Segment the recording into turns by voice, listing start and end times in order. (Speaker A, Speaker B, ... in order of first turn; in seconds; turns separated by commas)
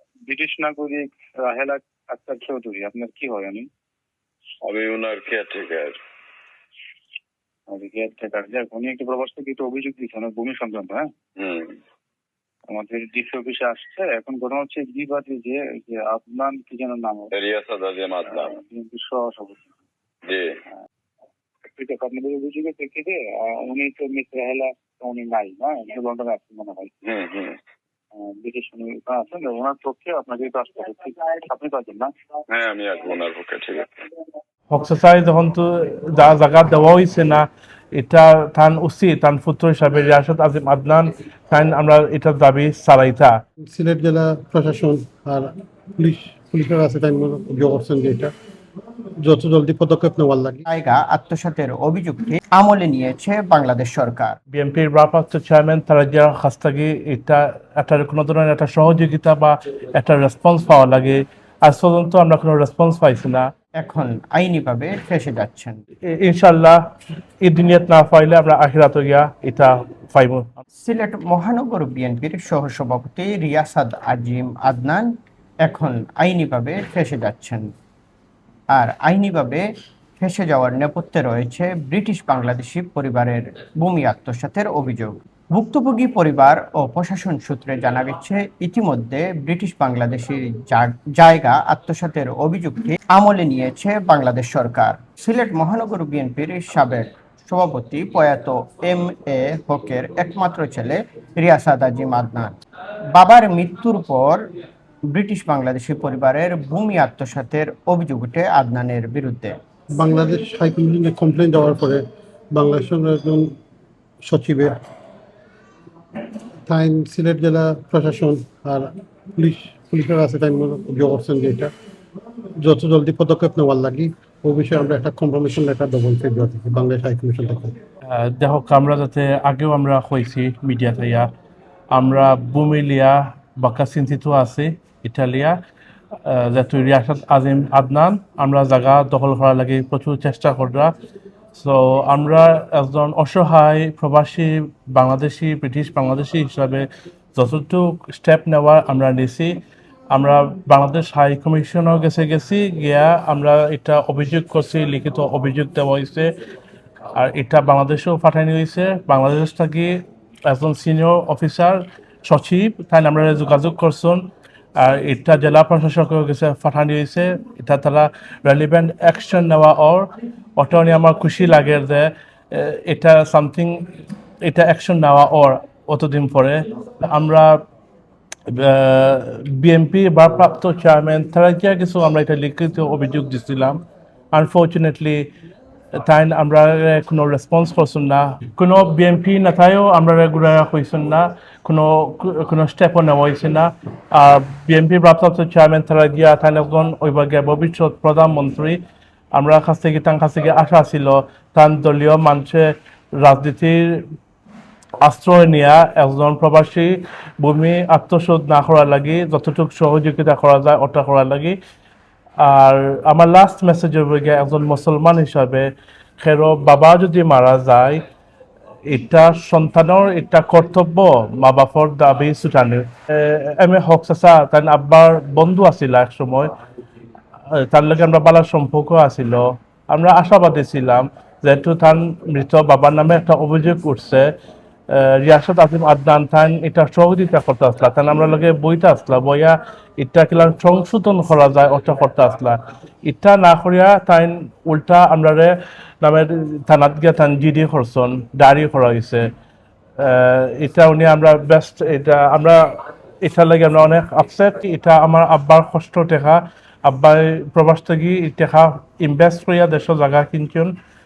Speaker A: 0.3-3.6, Speaker B: 4.6-6.0, Speaker A: 7.7-11.1, Speaker B: 11.4-11.8, Speaker A: 12.7-17.3, Speaker B: 17.3-18.6, Speaker A: 18.4-19.6, Speaker B: 20.2-20.5, Speaker A: 21.6-26.9, Speaker B: 27.0-27.6, Speaker A: 28.2-32.1, Speaker B: 32.5-33.9, Speaker C: 34.7-43.4, Speaker D: 43.7-48.3, Speaker D: 49.2-50.6, Speaker E: 50.7-54.4, Speaker C: 54.5-63.5, Speaker E: 63.8-65.8, Speaker C: 66.0-66.8, Speaker C: 67.4-70.6, Speaker E: 70.8-75.1, Speaker E: 75.6-77.7, Speaker E: 78.7-79.6, Speaker E: 80.2-102.6, Speaker E: 103.1-104.5, Speaker E: 105.1-109.5, Speaker D: 110.0-113.5, Speaker D: 114.2-114.8, Speaker D: 116.7-121.7, Speaker D: 122.6-127.8, Speaker C: 128.1-131.3, Speaker C: 131.9-135.6, Speaker C: 136.2-140.9, Speaker C: 141.5-149.6, Speaker C: 150.1-156.3, Speaker C: 157.1-173.9, Speaker C: 174.4-177.6, Speaker C: 178.5-185.3, Speaker C: 185.9-198.8, Speaker C: 199.3-204.0, Speaker C: 205.0-211.6, Speaker C: 212.4-218.0, Speaker C: 218.8-226.5, Speaker C: 227.5-234.3, Speaker C: 234.9-249.3, Speaker C: 250.0-260.7